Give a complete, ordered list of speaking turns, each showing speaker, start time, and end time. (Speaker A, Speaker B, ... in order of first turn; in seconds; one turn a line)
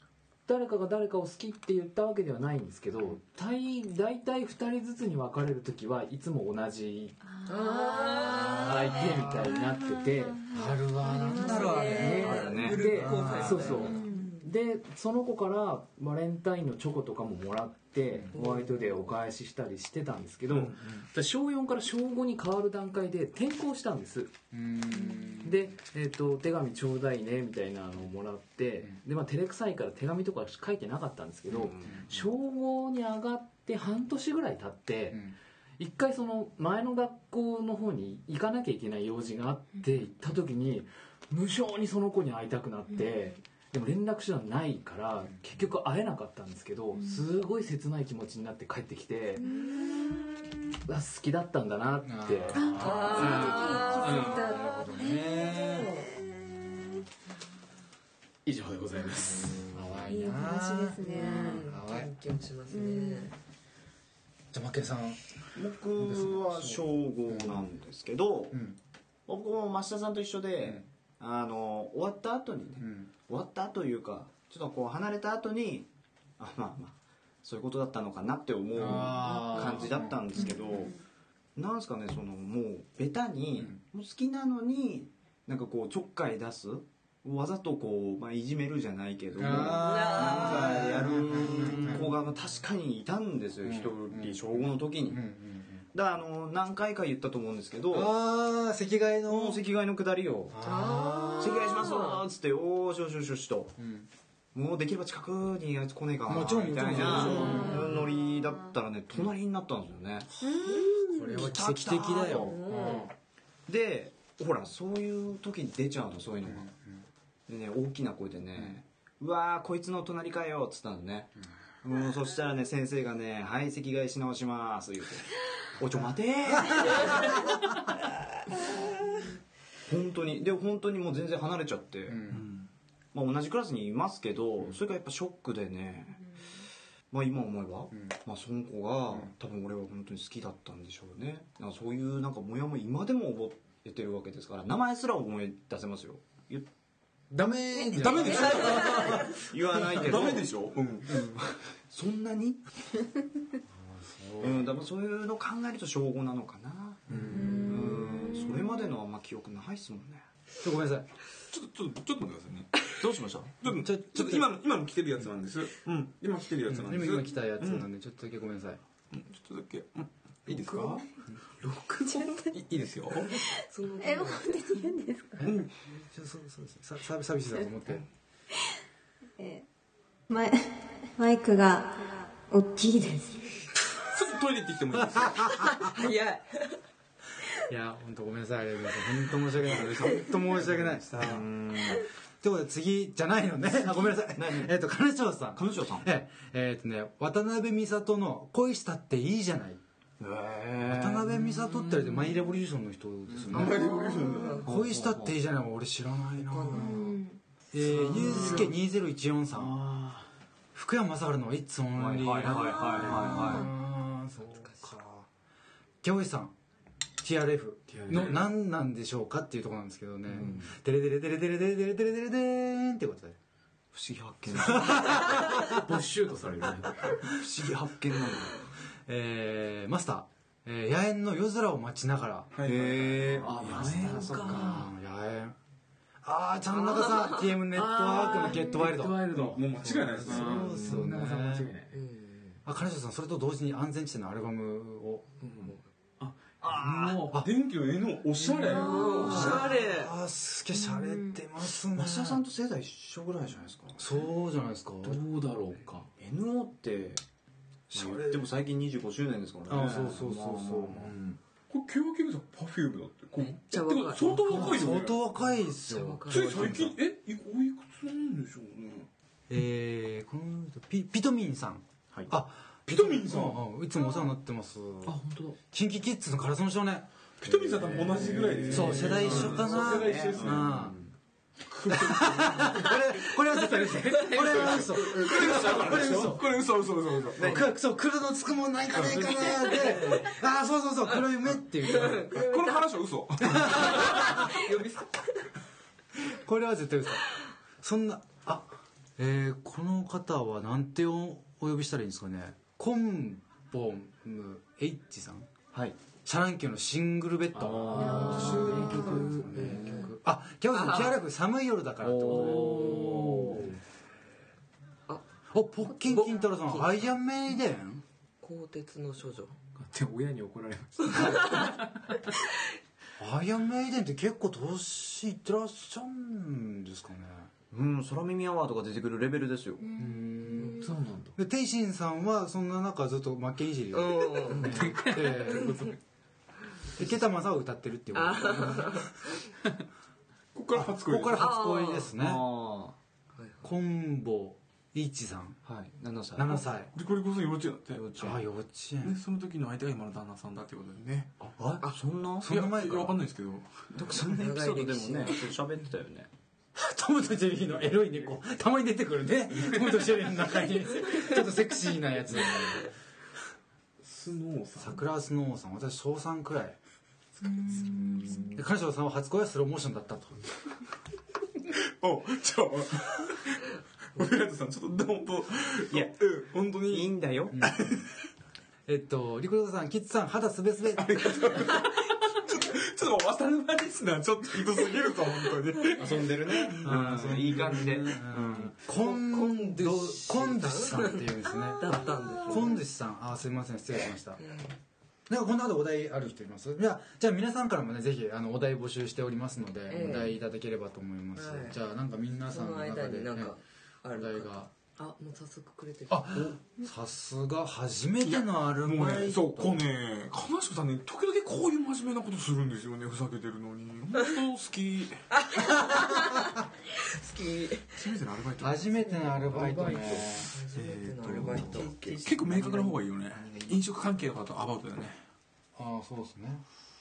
Speaker A: 0.5-7.2
Speaker B: 7.3-8.6
Speaker C: 7.5-9.0
Speaker A: 8.6-10.5
Speaker B: 10.4-12.4
Speaker D: 10.5-14.0
Speaker C: 11.4-14.5
Speaker A: 11.8-24.4
Speaker E: 12.2-12.8
Speaker B: 13.9-14.3
Speaker C: 18.3-18.6
Speaker F: 20.5-21.1
Speaker D: 24.5-25.7
Speaker A: 25.4-49.5
Speaker E: 31.5-32.2
Speaker B: 49.4-50.3
Speaker A: 50.9-54.5
Speaker D: 52.0-55.9
Speaker B: 52.5-56.8
Speaker C: 52.7-54.4
Speaker C: 55.6-56.1
Speaker A: 58.5-59.9
Speaker D: 59.7-62.1
Speaker B: 60.0-61.7
Speaker C: 61.1-63.3
Speaker B: 62.7-63.3
Speaker D: 64.5-65.2
Speaker E: 65.5-68.6
Speaker D: 66.0-67.6
Speaker D: 68.5-68.8
Speaker E: 69.3-75.9
Speaker D: 72.8-73.1
Speaker E: 76.4-81.0
Speaker D: 78.7-80.5
Speaker B: 80.4-81.0
Speaker E: 81.6-95.2
Speaker D: 89.3-92.1
Speaker C: 89.6-90.9
Speaker D: 93.6-95.9
Speaker E: 95.9-98.1
Speaker D: 97.9-99.6
Speaker E: 99.3-100.6
Speaker D: 100.5-101.8
Speaker C: 100.6-102.2
Speaker E: 101.4-103.8
Speaker D: 103.8-104.1
Speaker E: 104.5-110.5
Speaker D: 106.3-108.1
Speaker B: 107.3-108.2
Speaker C: 107.3-107.7
Speaker D: 110.4-113.1
Speaker B: 110.4-111.3
Speaker E: 111.2-113.0
Speaker C: 112.3-113.1
Speaker E: 113.7-116.7
Speaker D: 116.4-117.0
Speaker E: 117.5-127.4
Speaker D: 126.5-127.6
Speaker E: 129.9-132.2
Speaker D: 132.1-132.5
Speaker F: 132.3-132.7
Speaker E: 133.1-136.2
Speaker E: 137.1-146.7
Speaker D: 147.3-149.4
Speaker B: 147.8-149.1
Speaker F: 147.9-151.4
Speaker E: 149.5-150.5
Speaker E: 151.9-152.6
Speaker D: 153.7-154.8
Speaker E: 154.4-160.2
Speaker D: 157.1-158.3
Speaker B: 157.3-158.9
Speaker D: 160.6-161.1
Speaker F: 161.5-162.9
Speaker E: 163.0-163.6
Speaker F: 163.6-167.3
Speaker D: 163.6-164.5
Speaker D: 166.7-168.8
Speaker F: 169.1-171.1
Speaker F: 171.6-173.4
Speaker C: 173.7-174.5
Speaker B: 174.0-175.4
Speaker D: 175.4-178.1
Speaker F: 175.4-175.7
Speaker B: 179.4-179.7
Speaker B: 180.3-183.7
Speaker F: 184.0-185.7
Speaker D: 185.0-185.9
Speaker C: 185.7-186.8
Speaker D: 187.7-191.4
Speaker E: 191.1-192.1
Speaker D: 192.4-199.8
Speaker E: 194.3-194.7
Speaker E: 195.6-196.1
Speaker E: 200.2-201.3
Speaker D: 200.8-203.9
Speaker A: 201.6-202.2
Speaker E: 203.3-203.7
Speaker F: 203.5-204.7
Speaker C: 203.9-204.7
Speaker D: 204.6-207.2
Speaker E: 204.7-205.4
Speaker C: 206.5-207.1
Speaker B: 206.7-207.4
Speaker D: 207.7-209.8
Speaker A: 207.9-208.7
Speaker A: 209.7-210.3
Speaker D: 210.7-215.3
Speaker E: 212.0-213.7
Speaker A: 213.1-213.3
Speaker D: 216.0-216.5
Speaker D: 217.2-223.4
Speaker A: 217.9-218.4
Speaker E: 218.1-218.4
Speaker E: 220.3-220.7
Speaker E: 223.9-225.3
Speaker D: 224.5-225.9
Speaker A: 225.3-227.1
Speaker E: 227.3-228.6
Speaker D: 229.1-235.6
Speaker F: 232.6-233.2
Speaker E: 232.6-234.9
Speaker A: 233.4-234.9
Speaker D: 236.2-241.7
Speaker C: 236.7-237.5
Speaker A: 237.7-242.0
Speaker F: 239.3-240.9
Speaker E: 240.2-241.0
Speaker C: 241.9-242.6
Speaker D: 242.7-245.3
Speaker A: 245.4-247.4
Speaker E: 246.6-247.2
Speaker F: 246.7-249.7
Speaker A: 248.4-249.8
Speaker C: 248.7-250.1
Speaker D: 249.2-252.4
Speaker E: 249.3-249.6
Speaker B: 250.8-251.4
Speaker E: 251.9-254.0
Speaker D: 254.0-255.2
Speaker A: 255.0-256.1
Speaker E: 256.2-257.2
Speaker D: 257.9-258.5
Speaker E: 257.9-261.4
Speaker D: 259.7-261.2
Speaker F: 261.7-265.2
Speaker C: 263.4-264.9
Speaker D: 264.5-266.9
Speaker C: 265.8-266.7
Speaker F: 266.3-269.1
Speaker D: 269.5-275.2
Speaker F: 272.9-273.6
Speaker A: 275.0-275.6
Speaker D: 275.7-277.1
Speaker F: 277.4-280.8
Speaker E: 277.4-281.1
Speaker A: 278.0-279.5
Speaker D: 278.7-281.0
Speaker F: 281.7-283.0
Speaker D: 281.9-286.4
Speaker A: 284.3-286.4
Speaker F: 284.4-287.6
Speaker E: 287.4-287.7
Speaker D: 287.4-292.3
Speaker F: 288.9-289.5
Speaker C: 291.9-292.9
Speaker F: 292.1-294.5
Speaker D: 293.4-294.4
Speaker C: 293.6-295.2
Speaker D: 296.3-297.3
Speaker D: 297.8-305.5
Speaker D: 306.2-313.7
Speaker A: 307.6-309.9
Speaker E: 307.8-308.8
Speaker E: 309.4-310.1
Speaker C: 310.7-311.2
Speaker E: 312.0-313.6
Speaker A: 312.1-313.8
Speaker D: 315.5-318.0
Speaker C: 316.0-317.1
Speaker C: 318.4-319.6
Speaker A: 319.8-322.3
Speaker D: 323.2-327.5
Speaker E: 327.7-329.9
Speaker B: 329.8-330.8
Speaker D: 330.0-335.9
Speaker A: 330.8-331.4
Speaker C: 333.9-334.8
Speaker A: 334.5-335.9
Speaker D: 337.0-339.1
Speaker C: 338.1-339.1
Speaker F: 340.5-341.5
Speaker D: 340.7-342.4
Speaker C: 341.4-342.1
Speaker E: 342.2-343.0
Speaker C: 343.4-343.7
Speaker D: 343.6-345.6
Speaker E: 345.6-346.6
Speaker D: 346.4-346.9
Speaker F: 346.9-348.1
Speaker E: 347.9-348.4
Speaker D: 348.2-349.2
Speaker F: 349.0-351.3
Speaker E: 351.4-352.5
Speaker D: 352.4-353.2
Speaker F: 352.4-353.9
Speaker E: 353.9-356.3
Speaker C: 354.2-355.5
Speaker D: 356.8-362.9
Speaker F: 364.0-365.0
Speaker D: 364.8-366.8
Speaker B: 367.9-368.4
Speaker D: 368.5-370.4
Speaker F: 371.7-373.6
Speaker F: 374.1-378.1
Speaker E: 376.9-377.6
Speaker D: 377.5-377.8
Speaker D: 378.9-381.6
Speaker F: 381.0-387.8
Speaker E: 386.0-388.8
Speaker D: 386.9-394.4
Speaker C: 389.0-392.8
Speaker C: 394.4-394.8
Speaker D: 395.3-403.6
Speaker C: 399.9-400.4
Speaker C: 401.4-401.8
Speaker C: 402.5-406.4
Speaker D: 404.1-404.7
Speaker D: 406.1-409.8
Speaker F: 408.2-415.8
Speaker C: 415.3-418.0
Speaker F: 417.9-418.9
Speaker D: 418.6-420.5
Speaker A: 419.5-420.5
Speaker C: 420.5-422.6
Speaker F: 420.7-425.2
Speaker E: 421.3-422.9
Speaker D: 425.8-426.6